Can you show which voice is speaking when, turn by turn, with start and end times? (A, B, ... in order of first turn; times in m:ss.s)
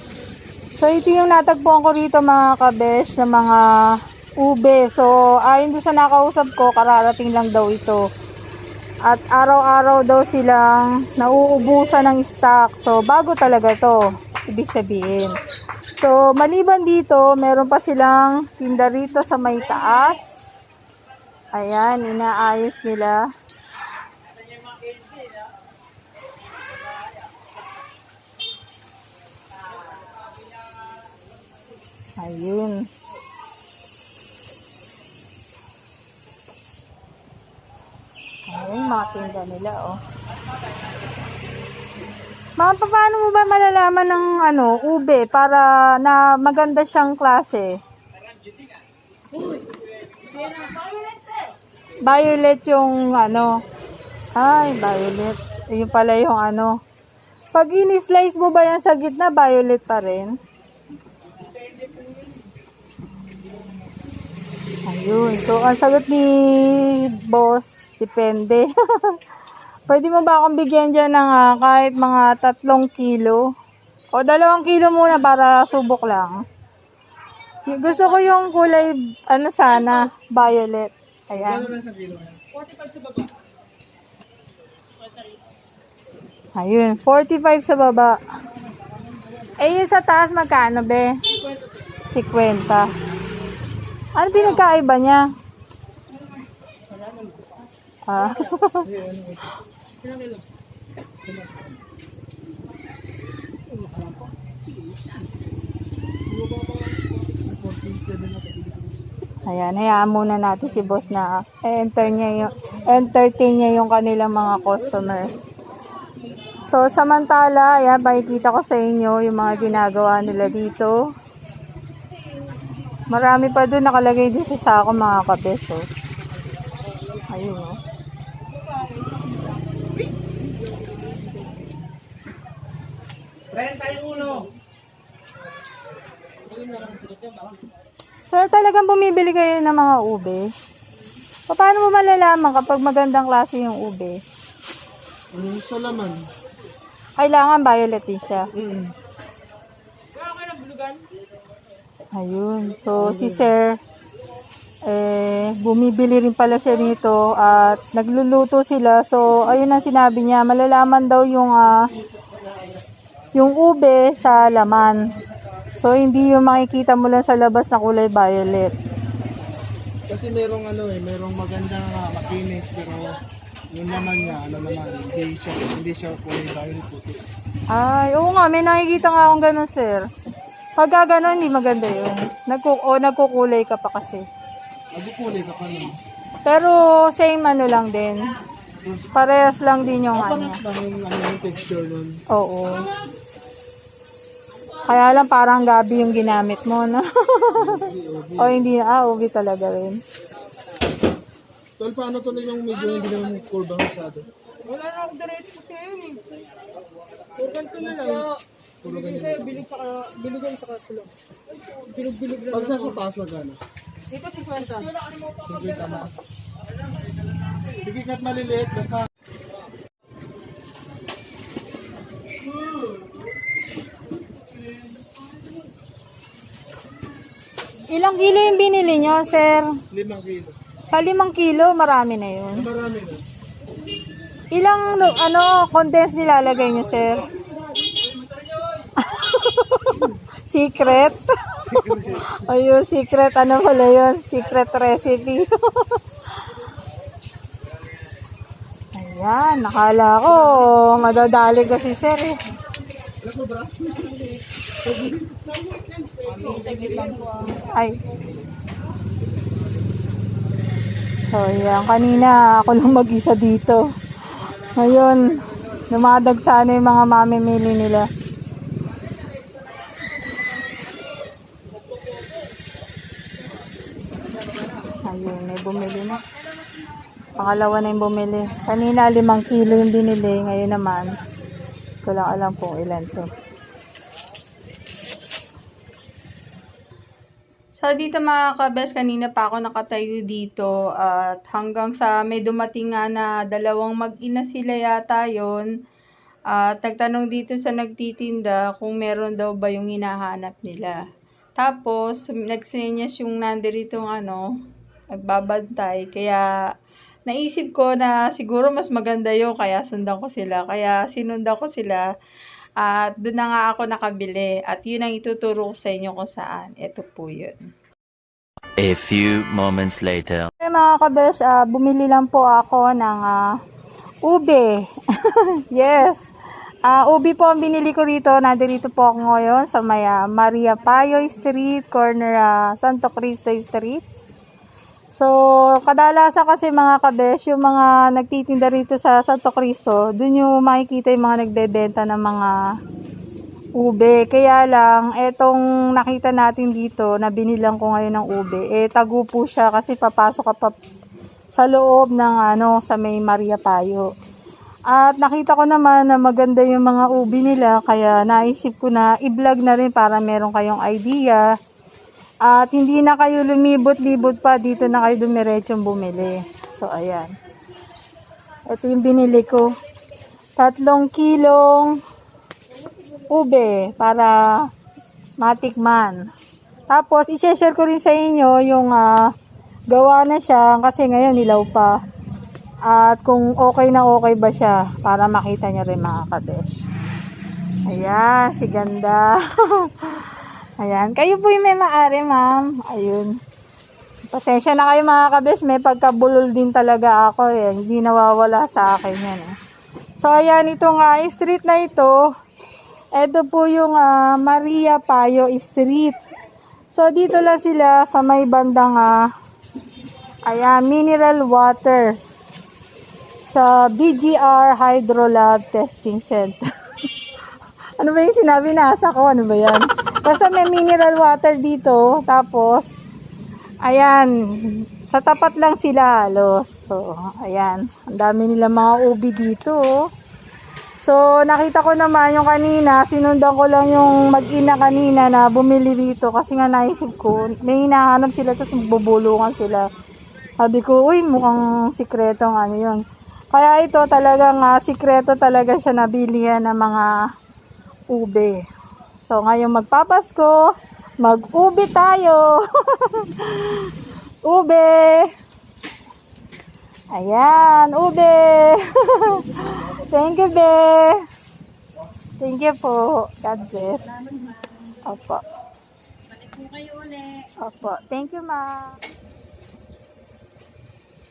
0:00.8-0:03.6 A
0:04.4-0:08.0 A
0:09.1-0:15.4 A
0:16.0-0:20.3 A
0:21.5-0:23.2 A
0:32.2-0:32.9 A
0:38.5-0:40.0 A
0:42.6-0:47.8 A
0:52.0-0:53.6 A
0:54.4-0:56.8 A
0:57.5-1:00.4 A
1:04.9-1:09.2 A
1:09.9-1:13.4 A
1:14.1-1:16.4 A
1:17.7-1:21.7 A
1:21.3-1:22.4 B
1:26.6-1:28.2 A
1:29.6-1:31.2 A
1:32.1-1:32.9 A
1:34.2-1:35.3 A
1:38.1-1:38.9 A
1:38.8-1:39.6 B
1:41.2-1:41.8 B
1:43.7-1:44.3 B
1:46.3-1:49.0 B
1:49.5-1:55.3 A
1:56.7-2:01.0 A
2:03.1-2:05.9 A
2:07.3-2:07.8 A
2:18.3-2:20.5 A
2:21.5-2:24.2 A
2:25.3-2:26.2 B
2:27.2-2:28.5 A
2:28.6-2:28.9 B
2:30.4-2:30.7 C
2:32.2-2:33.8 A
2:33.0-2:33.6 B
2:34.9-2:41.9 A
2:43.4-2:45.0 A
2:45.8-2:48.7 A
2:50.1-2:53.2 B
2:53.7-2:57.2 B
2:57.7-3:00.0 A
3:00.8-3:04.2 A
3:04.9-3:06.0 B
3:06.4-3:08.3 A
3:09.1-3:10.6 A
3:10.1-3:12.2 B
3:12.3-3:12.9 A
3:14.9-3:20.0 A
3:17.6-3:18.7 B
3:21.8-3:24.3 B
3:24.7-3:26.2 D
3:27.4-3:28.3 B
3:27.5-3:28.1 D
3:28.8-3:29.8 B
3:29.7-3:31.1 D
3:31.9-3:32.3 D
3:32.4-3:33.6 B
3:34.2-3:34.9 D
3:35.4-3:36.2 B
3:37.7-3:39.1 B
3:47.9-3:49.8 A
3:49.9-3:50.6 B
3:50.9-3:52.7 A
3:52.6-3:53.2 B
3:54.5-3:57.3 A
3:59.0-4:06.0 A
4:01.6-4:02.4 B
4:09.0-4:12.4 A
4:13.2-4:14.3 B
4:14.8-4:15.9 B
4:16.4-4:18.0 A
4:21.3-4:23.9 A
4:24.4-4:28.1 A
4:35.0-4:36.2 A
4:37.4-4:41.1 A
4:42.0-4:43.3 A
4:47.8-4:55.7 A
4:56.5-5:01.0 A
5:01.6-5:04.4 A
5:05.1-5:06.5 A
5:07.3-5:12.0 A
5:12.8-5:17.6 A
5:18.8-5:20.5 C
5:20.6-5:23.5 A
5:24.2-5:26.2 A
5:26.9-5:34.0 A
5:35.1-5:42.6 A
5:43.8-5:50.7 A
5:51.5-5:54.1 A
5:54.9-6:01.5 A
6:02.5-6:07.3 A
6:08.7-6:09.7 A
6:10.6-6:12.0 A
6:13.3-6:14.4 A
6:15.4-6:16.2 A
6:16.9-6:19.3 A
6:19.9-6:21.9 A
6:22.9-6:26.7 A
6:27.9-6:33.4 A
6:34.3-6:39.5 A
6:40.2-6:42.2 A
6:43.2-6:46.2 A
6:46.9-6:49.2 A
6:50.5-6:52.2 A
6:53.5-6:56.6 A
6:58.0-7:02.9 A
7:03.8-7:10.0 A
7:11.0-7:19.8 A
7:20.6-7:23.0 A
7:23.5-7:27.1 A
7:28.1-7:28.6 A
7:29.2-7:30.6 A
7:31.2-7:35.3 A
7:37.1-7:41.2 A
7:42.4-7:44.3 A
7:44.9-7:45.4 A
7:46.5-7:47.2 D
7:47.6-7:49.0 A